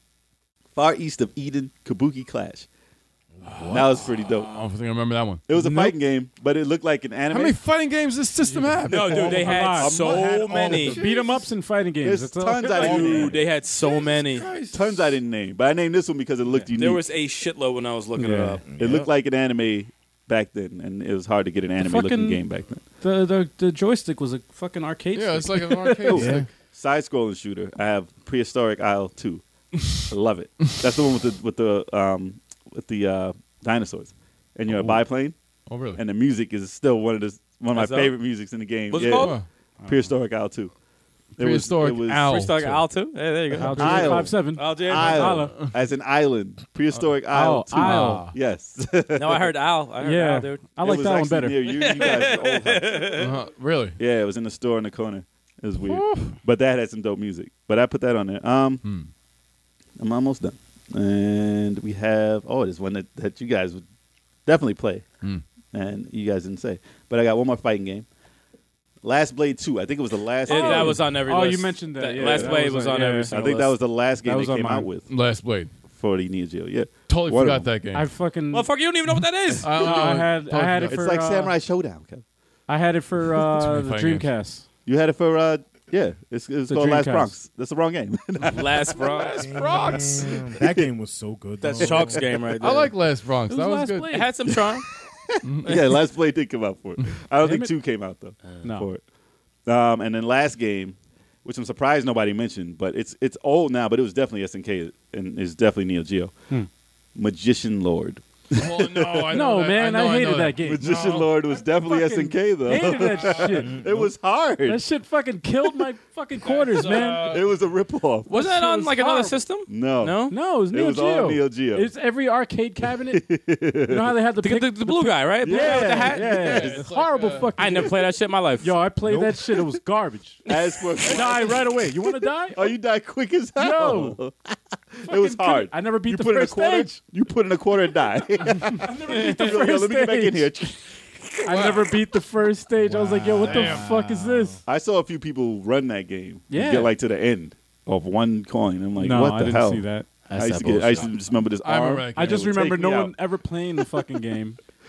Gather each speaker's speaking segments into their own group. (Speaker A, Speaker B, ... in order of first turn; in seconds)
Speaker A: 0.7-2.7, 3.7-4.5, 5.5-7.6, 8.9-11.0, 12.0-13.4, 14.7-17.0, 18.8-22.8, 26.1-35.3, 36.0-40.7, 41.4-42.3, 43.7-49.5, 50.8-53.2, 54.0-58.8, 60.0-63.8, 64.5-65.0, 65.7-68.0, 69.0-71.1, 72.2-72.6, 73.3-75.1, 75.9-77.7, 80.9-82.2, 84.8-88.8, 90.6-90.9, 95.3-99.0, 99.7-106.4, 107.1-109.5, 110.6-114.8, 117.2-118.3, 119.7-121.9, 122.8-124.2, 125.4-126.2, 129.0-129.8, 130.4-141.9, 143.4-143.8, 144.7-153.1
Speaker B: 3.4-4.0, 9.9-11.0, 18.6-19.1, 26.1-26.5, 89.4-92.4, 142.8-144.6
Speaker C: 3.4-5.4, 7.3-9.2, 10.8-11.5, 12.6-15.2, 25.1-26.4, 34.7-35.0, 35.7-36.0, 39.1-39.5, 41.4-42.9, 47.7-48.4, 53.1-54.0, 55.8-56.4, 58.8-59.1, 75.0-75.7, 77.1-78.0, 79.6-81.0, 83.5-84.3, 89.0-90.5, 92.6-94.2, 95.4-95.9, 108.5-111.3, 112.8-113.6, 116.4-117.5, 126.1-127.5, 141.5-141.9, 151.6-152.5
Speaker D: 5.5-6.0, 8.5-10.1, 10.8-13.3, 18.2-18.6, 21.8-22.4, 23.0-26.3, 39.8-40.1, 43.6-45.7, 47.1-48.3, 50.0-52.0, 70.5-74.9, 77.9-78.7, 79.7-81.5, 82.7-84.6, 86.7-87.3, 93.5-94.3, 97.4-97.7, 98.6-98.9, 109.3-110.9, 111.6-114.1, 114.6-117.4, 118.3-119.4, 120.3-123.2, 123.8-128.1, 128.6-132.7, 133.6-134.2, 135.1-136.9, 138.4-140.5, 141.4-144.6, 146.5-146.9, 149.0-150.1, 152.1-154.6
Speaker E: 8.9-11.0, 12.6-14.5, 16.7-18.9, 37.7-38.2, 38.9-39.4, 42.2-45.5, 49.1-50.6, 51.6-53.3, 70.4-73.7, 78.5-80.1, 88.4-89.5, 91.6-92.9, 94.0-94.8, 118.3-120.4, 124.4-126.8, 127.5-128.7, 150.3-151.1